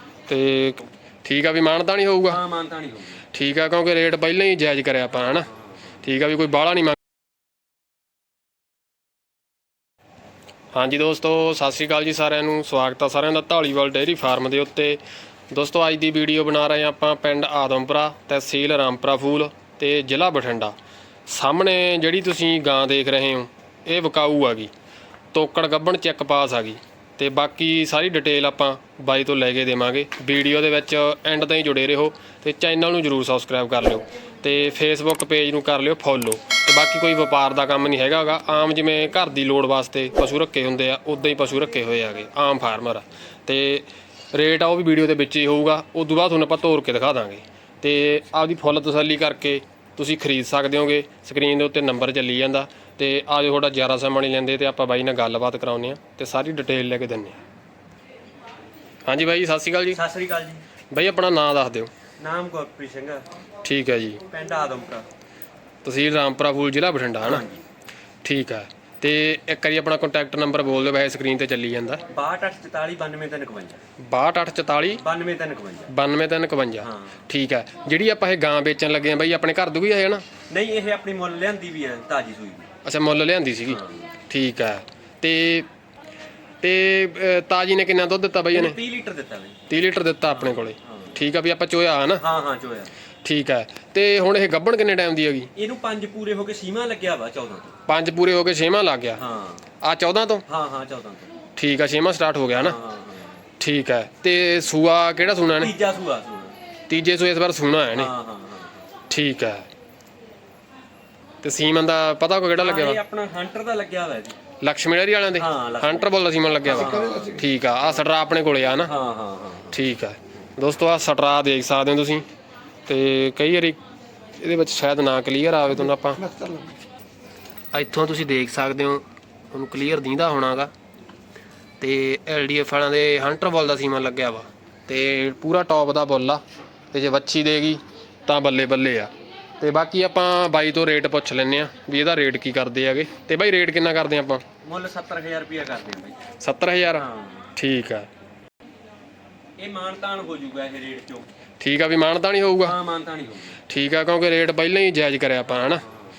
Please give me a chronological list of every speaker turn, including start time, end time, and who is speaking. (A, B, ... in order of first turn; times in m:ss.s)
0:00.3-0:02.4 A
0:02.3-0:03.2 B
0:03.3-0:05.5 A
0:05.2-0:05.6 B
0:06.0-0:07.0 A
0:10.7-0:20.7 A
0:21.3-0:24.7 A
0:25.3-0:57.4 A
0:59.0-1:00.0 A
0:59.9-1:00.6 B
1:00.9-1:01.9 A
1:02.2-1:03.2 B
1:03.6-1:04.2 A
1:04.3-1:05.0 B
1:05.8-1:07.4 A
1:07.2-1:07.6 B
1:08.2-1:12.0 A
1:12.1-1:13.8 B
1:14.0-1:15.0 A
1:15.0-1:15.9 B
1:15.9-1:20.2 A
1:16.8-1:17.2 B
1:20.5-1:22.7 B
1:22.8-1:25.7 A
1:23.7-1:24.2 B
1:26.6-1:28.8 A
1:28.5-1:29.6 B
1:29.7-1:32.2 A
1:30.3-1:31.2 B
1:32.2-1:32.9 B
1:33.2-1:35.5 A
1:35.5-1:37.7 B
1:37.9-1:39.2 A
1:39.2-1:39.6 B
1:39.8-1:40.4 A
1:40.5-1:41.3 B
1:41.6-1:42.8 A
1:42.5-1:43.4 B
1:43.6-1:45.7 A
1:45.6-1:46.5 B
1:46.9-1:48.1 A
1:47.9-1:48.8 B
1:49.1-1:49.7 A
1:51.4-1:53.0 A
1:52.6-1:54.4 B
1:54.6-1:58.9 A
1:55.4-1:56.1 B
1:56.6-1:57.4 B
1:58.8-1:59.8 B
1:59.7-2:02.2 A
2:02.9-2:03.8 A
2:04.4-2:06.4 A
2:07.7-2:10.7 A
2:11.8-2:24.4 A
2:24.6-2:26.3 B
2:26.4-2:28.1 A
2:27.0-2:27.5 B
2:29.6-2:31.2 B
2:31.6-2:32.8 A
2:32.6-2:33.6 B
2:33.7-2:35.8 A
2:35.5-2:36.1 B